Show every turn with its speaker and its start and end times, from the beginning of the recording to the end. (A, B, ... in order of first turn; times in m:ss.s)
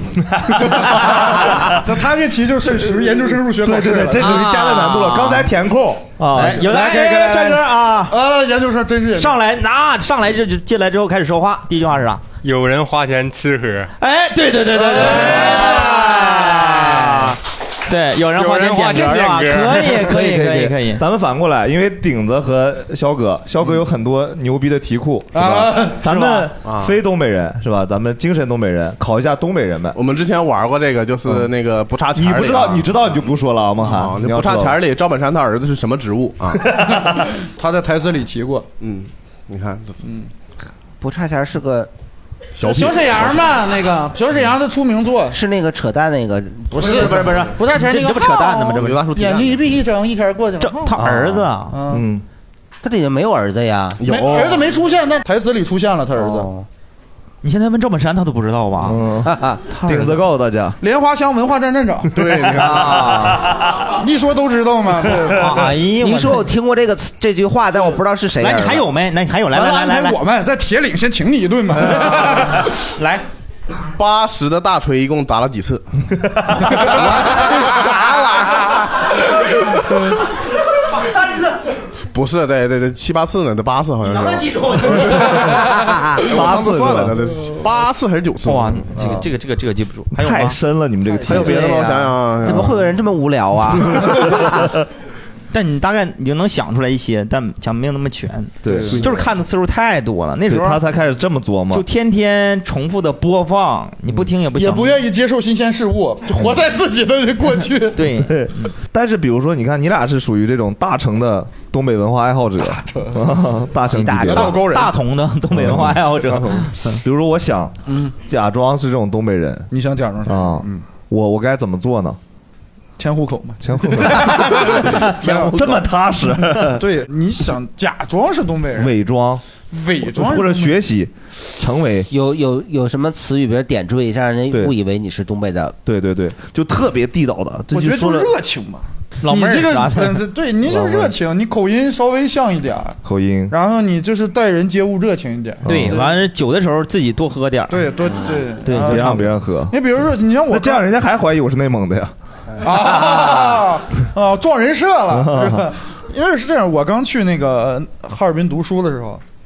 0:00.5-0:01.7 A
0:01.8-0:04.5 B
0:03.6-0:07.6 C
0:04.2-0:05.5 A
0:06.3-0:08.2 A
0:08.1-0:09.4 B
0:09.2-0:12.2 A
0:12.4-0:13.9 D
0:14.0-0:21.0 A
0:14.7-0:16.0 B
0:18.3-0:19.9 D
0:20.0-0:30.0 C
0:25.3-0:26.0 B
0:26.0-0:26.5 A
0:26.6-0:27.0 E
0:29.9-0:32.9 E
0:32.1-0:34.8 C
0:33.8-0:36.7 E
0:36.7-0:37.2 C
0:37.6-0:38.7 B
0:38.8-0:40.0 E
0:40.0-0:40.3 B
0:41.0-0:41.9 F
0:42.6-0:43.5 E
0:42.6-0:45.4 B
0:45.3-0:47.4 F
0:46.7-0:48.5 B
0:46.8-0:49.0 A
0:48.5-0:49.8 E
0:49.1-0:51.0 B
0:50.6-0:51.8 A
0:51.7-0:52.0 B
0:51.9-0:52.2 C
0:52.8-0:54.0 F
0:54.0-0:54.7 E
0:54.0-0:56.5 B
0:56.2-0:56.6 F
0:57.4-0:59.0 A
0:58.8-1:00.8 C
0:59.2-0:59.6 F
0:59.8-1:00.1 A
1:00.8-1:02.1 B
1:02.1-1:03.4 E
1:02.3-1:03.7 C
1:04.0-1:05.7 B
1:05.3-1:06.5 A
1:06.0-1:08.9 F
1:08.4-1:10.2 A
1:09.5-1:12.7 B
1:12.1-1:13.2 A
1:14.0-1:15.8 E
1:16.7-1:17.8 E
1:17.2-1:18.8 B
1:21.0-1:21.5 A
1:22.1-1:29.1 E
1:24.0-1:25.5 A
1:26.2-1:27.2 C
1:28.4-1:30.6 A
1:30.1-1:31.9 C
1:31.2-1:32.9 E
1:31.2-1:34.4 F
1:35.5-1:40.8 A
1:38.6-1:39.0 C
1:38.6-1:39.0 B
1:40.5-1:41.8 C
1:41.7-1:45.0 A
1:44.5-1:48.0 B
1:48.0-1:48.7 A
1:48.3-1:54.6 C
1:52.6-1:53.3 B
1:53.9-1:54.6 F
1:54.3-1:54.9 E
1:54.3-1:57.0 A
1:55.6-1:57.7 C
1:57.9-1:58.1 B
1:58.2-1:59.7 C
1:59.7-2:00.8 B
2:00.3-2:02.2 C
2:03.0-2:05.8 B
2:03.6-2:06.8 C
2:04.1-2:05.8 A
2:06.7-2:08.9 B
2:08.8-2:09.4 C
2:09.7-2:10.8 B
2:10.0-2:12.1 C
2:12.1-2:15.8 F
2:15.8-2:18.3 C
2:17.7-2:23.0 B
2:19.2-2:20.3 A
2:20.6-2:21.1 C
2:23.0-2:23.5 C
2:23.5-2:26.1 B
2:25.6-2:26.0 C
2:25.6-2:27.9 A
2:27.7-2:30.9 B
2:28.6-2:29.3 A
2:28.8-2:29.8 C
2:30.5-2:32.1 C
2:32.6-2:39.2 B
2:35.1-2:35.6 C